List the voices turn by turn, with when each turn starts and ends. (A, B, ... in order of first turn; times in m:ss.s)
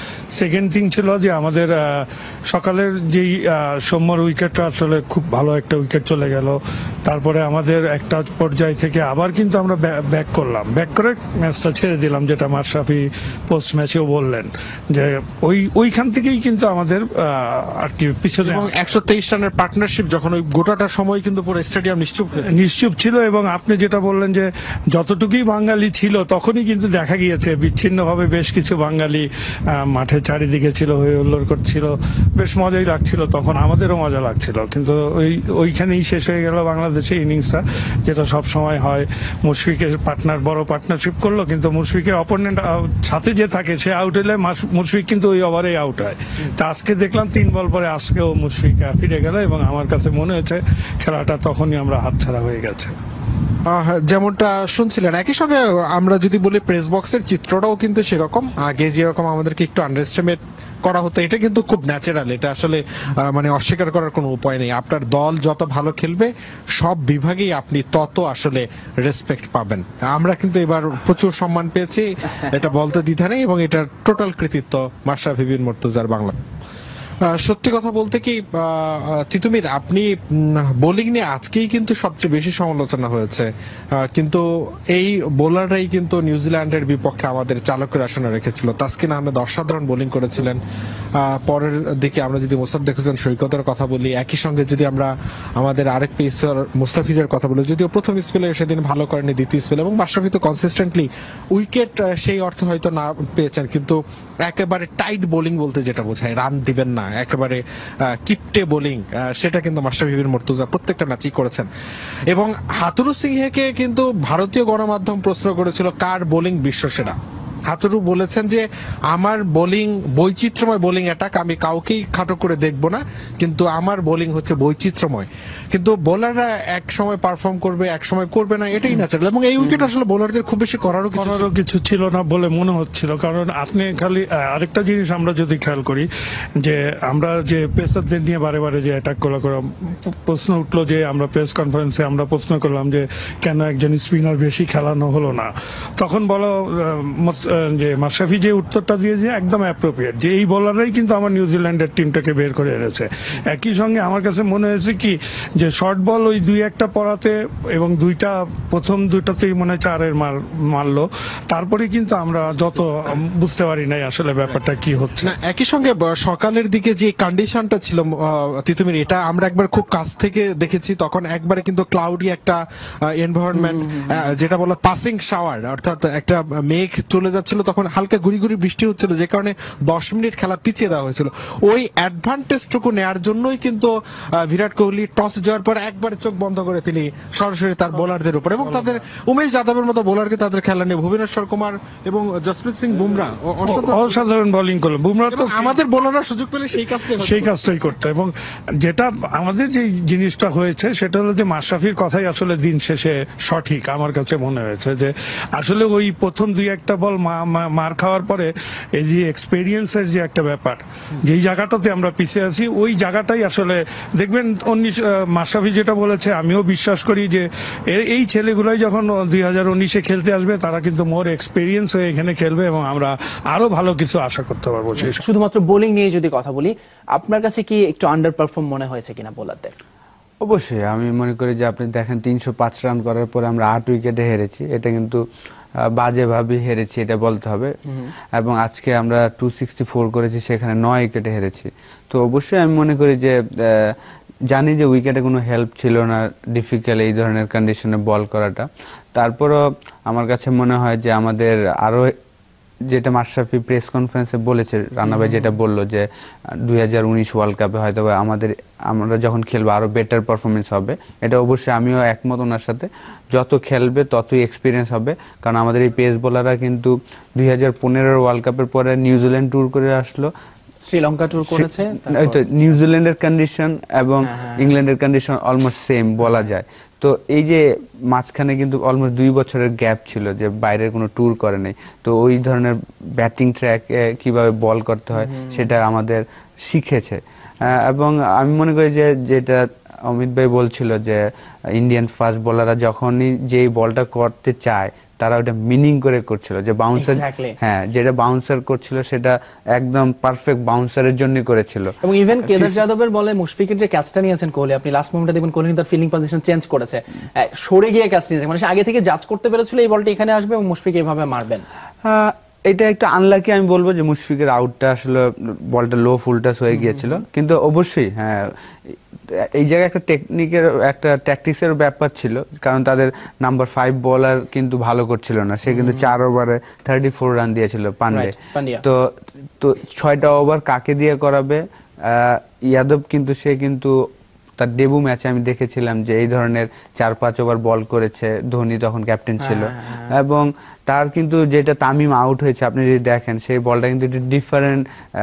0:00.3-0:18.8 A
0:18.4-0:22.6 B
0:22.5-0:52.9 A
0:53.7-1:16.3 B
1:17.3-1:30.6 B
1:31.2-1:51.7 B
1:52.3-1:57.2 B
1:57.7-2:11.5 B
2:09.6-2:09.9 C
2:11.2-2:16.1 A
2:16.6-2:45.4 A
2:45.2-2:52.6 B
2:53.1-3:14.3 B
2:53.5-2:54.2 C
3:08.6-3:09.0 A
3:13.7-3:15.8 A
3:15.3-3:17.6 B
3:17.2-3:45.2 A
3:45.0-3:49.7 C
3:50.4-3:55.2 D
3:55.8-3:57.7 D
3:58.4-4:04.0 D
4:04.5-4:12.1 D
4:12.9-4:16.1 D
4:15.0-4:15.6 C
4:16.6-4:30.3 D
4:30.8-4:32.4 C
4:31.5-4:51.2 D
4:34.2-4:34.7 C
4:45.2-4:45.7 C
4:51.7-5:01.9 D
4:57.0-4:57.6 C
5:02.0-5:11.6 C
5:02.5-5:02.7 D
5:12.0-5:29.0 D
5:16.7-5:17.2 C
5:25.7-5:26.1 C
5:28.1-5:28.8 C
5:29.6-5:34.0 D
5:34.6-5:44.8 D
5:39.4-5:40.1 C